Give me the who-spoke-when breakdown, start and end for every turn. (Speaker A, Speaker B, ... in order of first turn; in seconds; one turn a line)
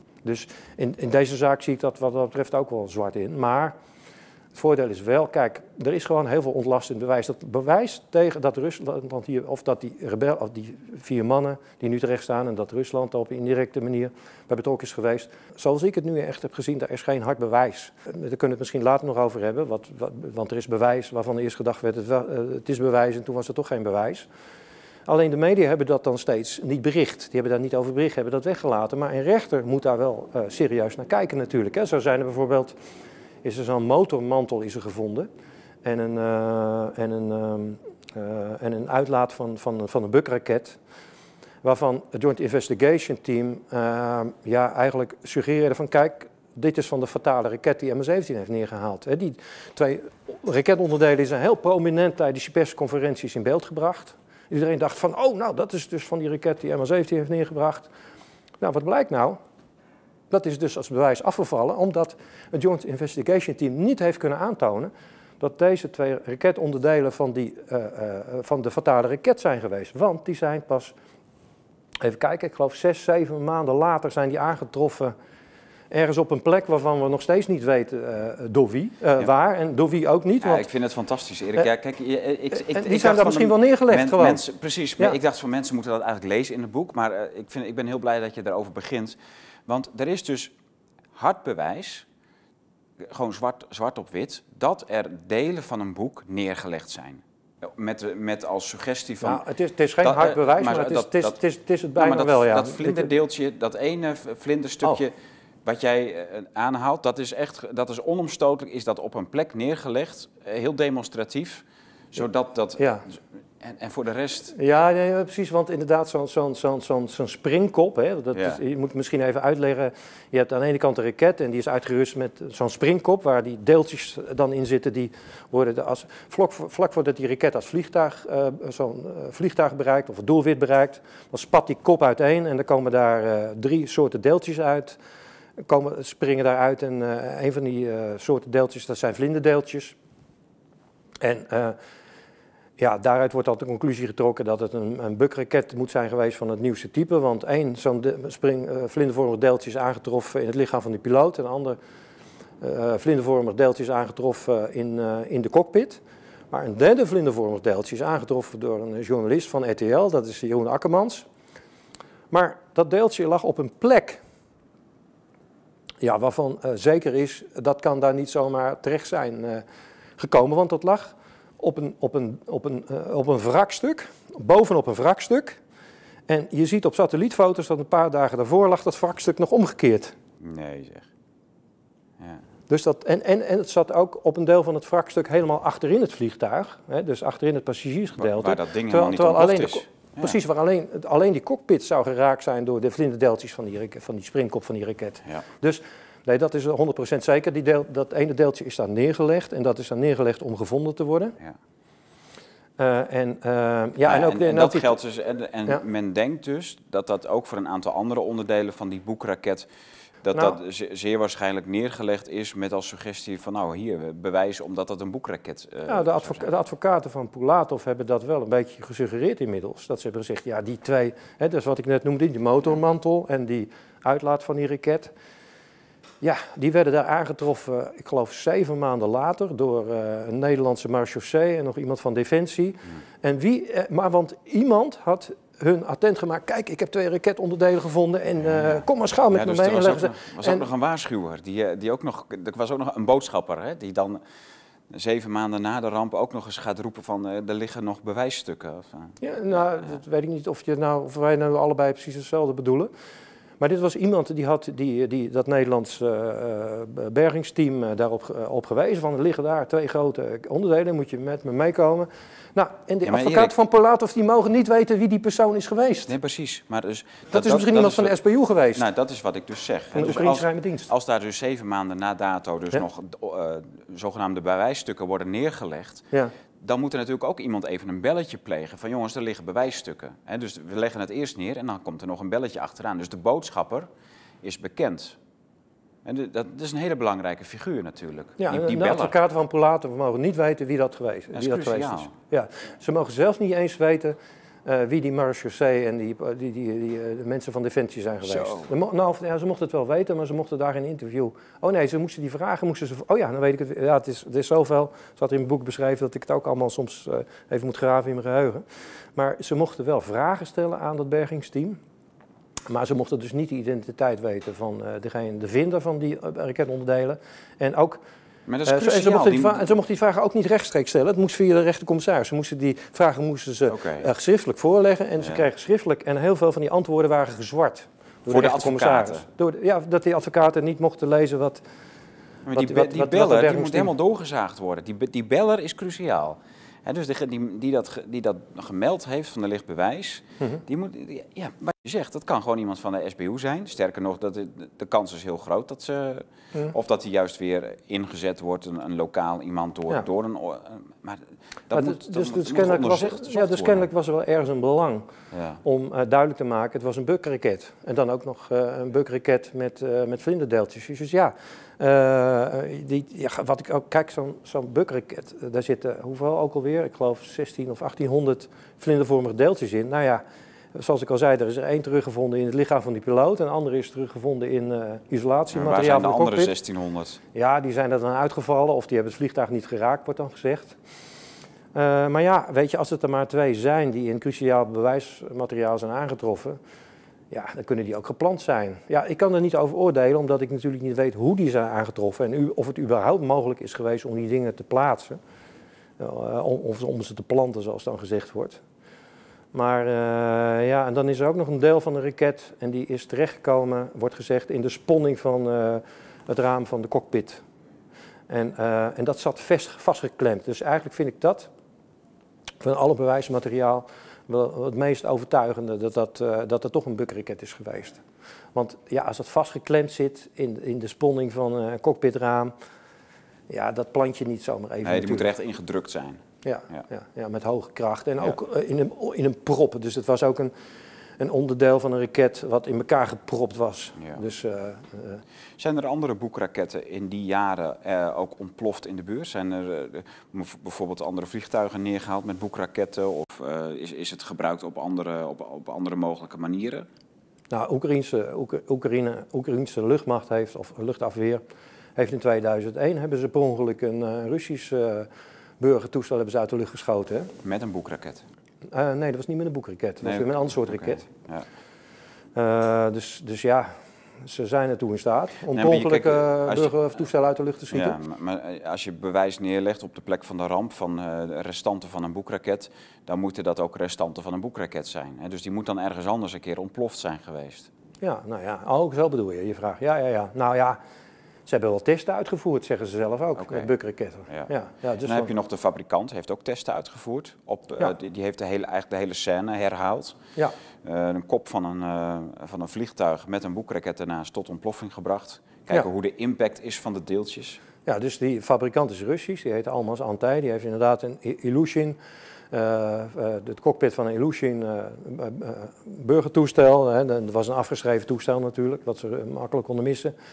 Speaker A: 0.2-3.7
Speaker A: 4.5-24.3
Speaker A: 25.1-32.7
Speaker A: 33.4-35.3
Speaker A: 35.8-40.8
Speaker A: 41.6-57.9
Speaker A: 58.6-59.4
Speaker A: 60.3-70.9
Speaker A: 72.0-75.1
Speaker A: 75.9-80.6
Speaker B: 80.4-89.2
Speaker A: 82.5-84.4
Speaker B: 89.7-90.5
Speaker B: 91.1-92.0
Speaker B: 93.0-99.4
Speaker A: 99.2-103.1
Speaker B: 100.0-101.4
Speaker B: 102.0-114.5
Speaker A: 112.8-113.0
Speaker A: 114.5-135.0
Speaker B: 118.3-118.6
Speaker A: 135.7-139.9
Speaker A: 141.2-141.8
Speaker A: 142.8-151.8
Speaker A: 152.6-161.2
Speaker A: 162.3-164.2
Speaker A: 166.0-169.6
Speaker A: 170.2-175.6
Speaker A: 176.3-180.2
Speaker B: 180.4-181.1
Speaker A: 182.7-201.4
Speaker B: 188.2-190.4
Speaker A: 202.8-205.0
Speaker B: 204.0-209.7
Speaker B: 210.2-216.5
Speaker A: 215.9-225.1
Speaker A: 226.2-240.7
Speaker B: 238.5-244.2
Speaker B: 244.9-249.2
Speaker A: 249.2-252.9
Speaker A: 253.6-266.1
Speaker B: 263.0-263.5
Speaker B: 266.1-268.1
Speaker A: 267.3-268.8
Speaker B: 268.7-276.1
Speaker A: 269.9-270.9
Speaker B: 276.6-283.9
Speaker B: 284.4-285.2
Speaker B: 286.0-289.1
Speaker A: 288.4-308.6
Speaker B: 291.3-292.1
Speaker B: 298.2-298.7
Speaker A: 309.1-311.8
Speaker A: 312.7-318.0
Speaker B: 318.5-319.7
Speaker A: 318.6-331.6
Speaker B: 323.7-324.1
Speaker B: 328.3-329.2
Speaker B: 332.4-353.9
Speaker A: 332.5-333.9
Speaker A: 351.7-355.1
Speaker B: 355.3-355.6
Speaker A: 355.6-370.2
Speaker A: 370.7-376.5
Speaker B: 375.5-377.2
Speaker A: 377.3-380.8
Speaker A: 381.7-386.6
Speaker A: 387.3-395.2
Speaker A: 396.0-398.6
Speaker A: 399.5-407.4
Speaker A: 408.3-411.5
Speaker A: 412.6-418.0
Speaker A: 418.5-422.5
Speaker A: 423.5-425.3
Speaker B: 424.8-426.2
Speaker A: 426.4-430.5
Speaker A: 431.2-435.2
Speaker B: 435.6-446.9
Speaker A: 447.5-451.4
Speaker A: 451.9-455.1
Speaker A: 455.6-457.3
Speaker B: 457.4-458.2
Speaker A: 458.7-461.0
Speaker B: 460.0-461.4
Speaker A: 462.3-468.0
Speaker B: 465.5-466.7
Speaker B: 467.7-477.7
Speaker A: 478.0-480.8
Speaker A: 481.4-485.3
Speaker B: 483.4-483.7
Speaker B: 485.0-490.2
Speaker B: 490.8-497.6
Speaker A: 497.8-502.0
Speaker A: 502.5-510.1